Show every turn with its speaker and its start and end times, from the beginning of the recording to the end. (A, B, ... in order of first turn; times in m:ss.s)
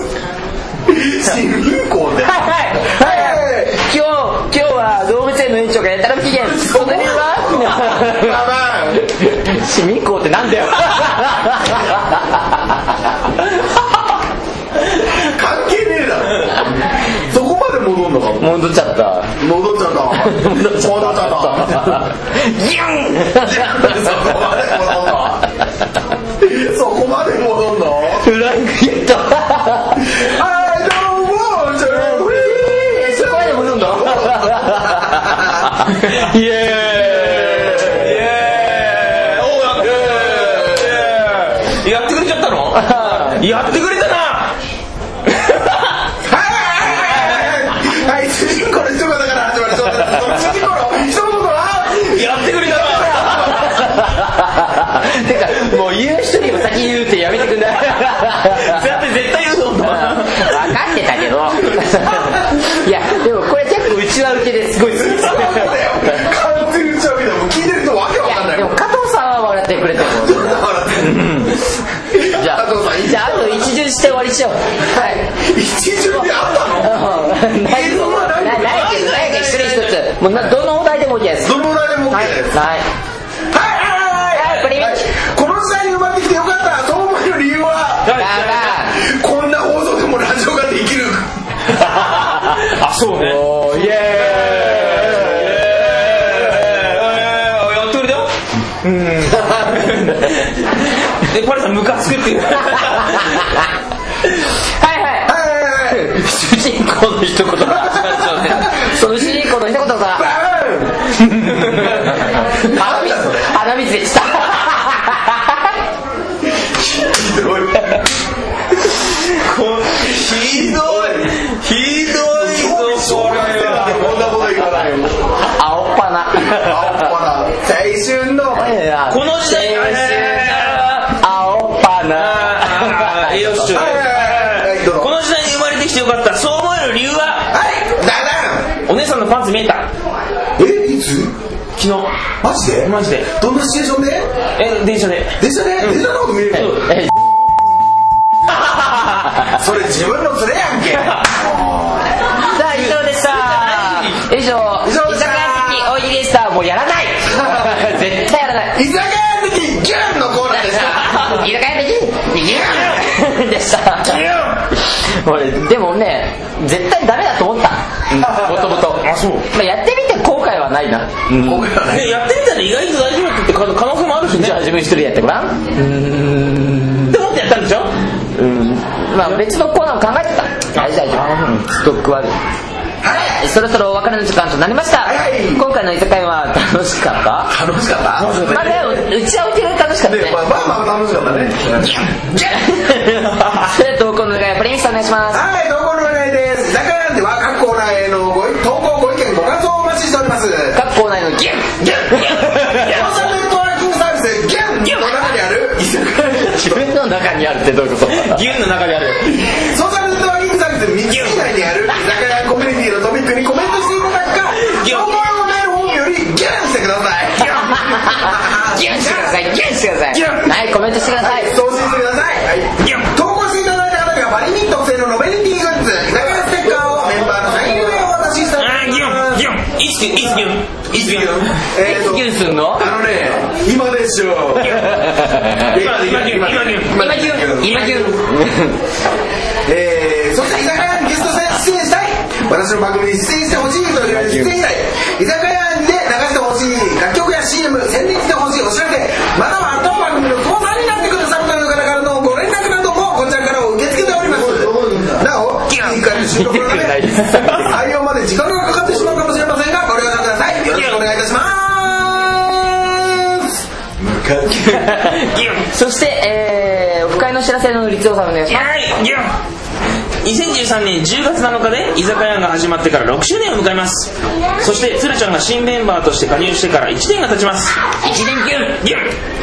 0:00.9-0:03.8 A
0:02.2-0:08.4 B
0:06.4-0:09.1 A
0:09.1-0:12.8 B
0:14.9-0:18.6 A
0:18.4-0:19.4 B
0:19.4-0:22.1 A
0:20.1-0:24.0 B
0:23.4-0:25.5 A
0:26.4-0:28.3 A
0:28.2-0:30.1 B
0:30.1-0:35.8 A
0:31.8-0:38.1 B
0:37.0-0:44.5 C
0:37.3-0:38.2 A
0:39.3-0:41.1 A
0:42.7-0:43.4 B
0:45.3-0:46.0 C
0:46.2-0:53.8 A
0:47.0-0:47.5 C
0:52.1-0:53.8 C
0:52.8-0:58.9 B
0:58.4-1:00.7 C
0:59.8-1:05.8 B
1:04.9-1:08.8 A
1:08.2-1:11.5 B
1:09.9-1:11.6 A
1:12.1-1:13.7 A
1:12.2-1:15.3 B
1:15.0-1:19.3 A
1:16.7-1:21.5 B
1:18.5-1:20.0 C
1:21.4-1:22.6 A
1:22.1-1:22.9 B
1:23.5-1:28.2 A
1:24.3-1:25.0 B
1:28.0-1:28.8 C
1:28.2-1:29.0 B
1:28.8-1:31.3 A
1:31.8-1:43.5 C
1:33.2-1:35.5 B
1:35.0-1:36.8 A
1:42.7-1:43.6 B
1:44.8-1:45.3 B
1:45.3-1:46.2 A
1:45.9-1:50.3 B
1:47.6-1:49.5 A
1:50.1-1:53.6 A
1:51.5-1:51.9 C
1:51.8-1:55.8 B
1:56.5-1:58.1 A
1:59.2-2:04.3 C
2:00.1-2:01.3 A
2:02.0-2:05.3 A
2:05.4-2:07.1 B
2:06.4-2:08.8 A
2:08.6-2:13.9 B
2:09.1-2:11.1 C
2:12.1-2:17.5 C
2:13.7-2:15.2 A
2:17.5-2:18.7 A
2:18.9-2:19.9 C
2:20.6-2:21.4 A
2:21.8-2:22.1 C
2:22.4-2:24.3 A
2:22.8-2:23.3 C
2:24.6-2:26.9 C
2:25.4-2:26.8 A
2:26.8-2:27.1 B
2:28.9-2:29.2 B
2:29.5-2:32.0 A
2:32.4-2:38.8 B
2:32.5-2:34.2 C
2:34.8-2:35.9 A
2:37.3-2:38.0 A
2:38.8-2:41.4 A
2:40.5-2:51.7 B
2:44.0-2:44.6 C
2:48.2-2:49.4 C
2:51.4-2:52.2 A
2:51.9-2:54.6 C
2:54.3-2:57.1 B
2:57.1-2:57.9 C
2:58.4-3:02.4 B
3:03.0-3:03.4 A
3:03.4-3:07.5 B
3:05.0-3:05.6 A
3:07.5-3:08.8 A
3:08.2-3:09.0 C
3:08.5-3:10.4 B
3:10.0-3:12.1 A
3:12.3-3:12.6 C
3:12.4-3:15.4 B
3:15.3-3:20.8 A
3:20.7-3:22.9 B
3:21.8-3:23.1 C
3:22.6-3:26.9 A
3:26.4-3:28.4 B
3:28.1-3:29.6 C
3:29.6-3:39.4 A
3:31.1-3:31.4 C
3:34.6-3:35.2 C
3:37.6-3:41.5 B
3:40.1-3:40.5 C
3:41.2-3:49.5 A
3:42.8-3:43.1 C
3:48.6-3:51.5 C
3:50.9-3:54.9 A
3:51.8-3:52.9 B
3:54.6-3:55.0 C
3:54.7-3:55.8 B
3:55.6-3:58.2 A
3:55.7-3:57.3 C
3:57.0-3:58.8 B
3:59.7-4:24.9 A
4:04.1-4:04.6 B
4:14.7-4:15.0 B
4:15.7-4:16.1 C
4:16.1-4:17.8 B
4:20.7-4:21.1 C
4:24.6-4:28.7 B
4:25.0-4:25.6 C
4:28.5-4:29.3 C
4:30.2-4:37.8 C
4:38.0-4:38.8 B
4:38.8-4:39.1 C